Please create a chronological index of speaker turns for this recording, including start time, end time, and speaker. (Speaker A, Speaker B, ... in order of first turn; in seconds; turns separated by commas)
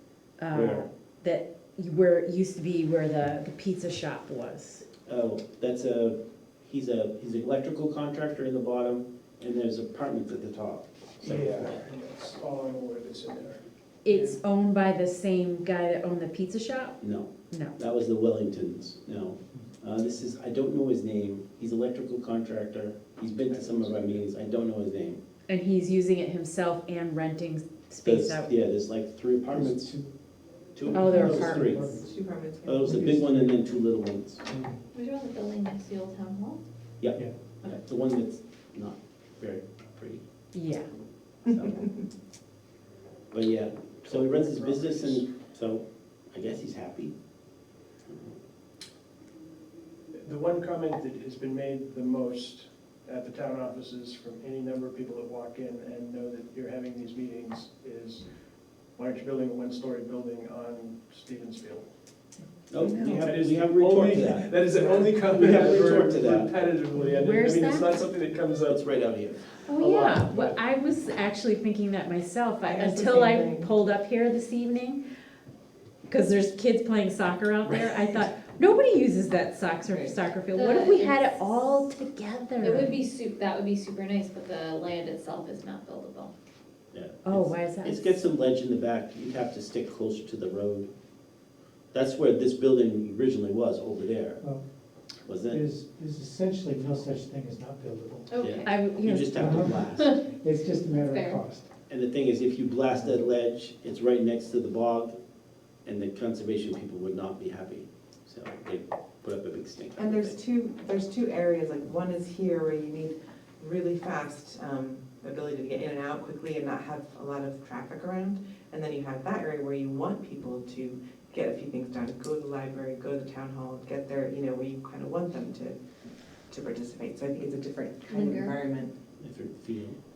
Speaker A: 0.4-4.8, Speaker B: 0.5-0.8, Speaker B: 5.0-11.8, Speaker C: 11.2-11.6, Speaker D: 11.2-14.4, Speaker A: 14.0-17.8, Speaker B: 17.0-25.2, Speaker D: 23.5-24.2, Speaker A: 25.5-28.5, Speaker B: 28.0-29.9, Speaker C: 29.5-30.1, Speaker B: 30.7-31.9, Speaker C: 30.9-32.1, Speaker A: 30.9-31.7, Speaker E: 31.3-33.1, Speaker B: 32.6-34.4, Speaker C: 32.8-33.6, Speaker C: 34.5-34.8, Speaker F: 34.9-36.6, Speaker B: 37.0-40.2, Speaker A: 40.5-40.9, Speaker B: 41.4-41.9, Speaker B: 43.3-47.1, Speaker D: 44.1-45.3, Speaker D: 50.1-58.2, Speaker D: 59.0-61.9, Speaker B: 62.7-66.5, Speaker E: 62.8-63.3, Speaker D: 63.1-68.8, Speaker A: 67.2-67.9, Speaker B: 68.7-69.5, Speaker D: 69.7-70.6, Speaker A: 69.7-75.0, Speaker E: 72.6-73.7, Speaker A: 76.1-82.9, Speaker B: 77.6-78.0, Speaker E: 79.8-80.2, Speaker F: 80.5-81.7, Speaker F: 82.6-86.3, Speaker B: 86.9-90.9, Speaker A: 87.2-88.2, Speaker B: 91.9-94.4, Speaker B: 95.2-95.6, Speaker C: 95.5-98.3, Speaker F: 98.3-98.8, Speaker B: 98.4-100.2, Speaker A: 98.6-99.8, Speaker C: 99.3-101.7, Speaker F: 100.8-101.4, Speaker B: 101.9-105.1, Speaker B: 105.8-110.3, Speaker E: 110.0-125.8, Speaker E: 126.5-128.9, Speaker F: 128.1-128.5, Speaker B: 129.2-130.0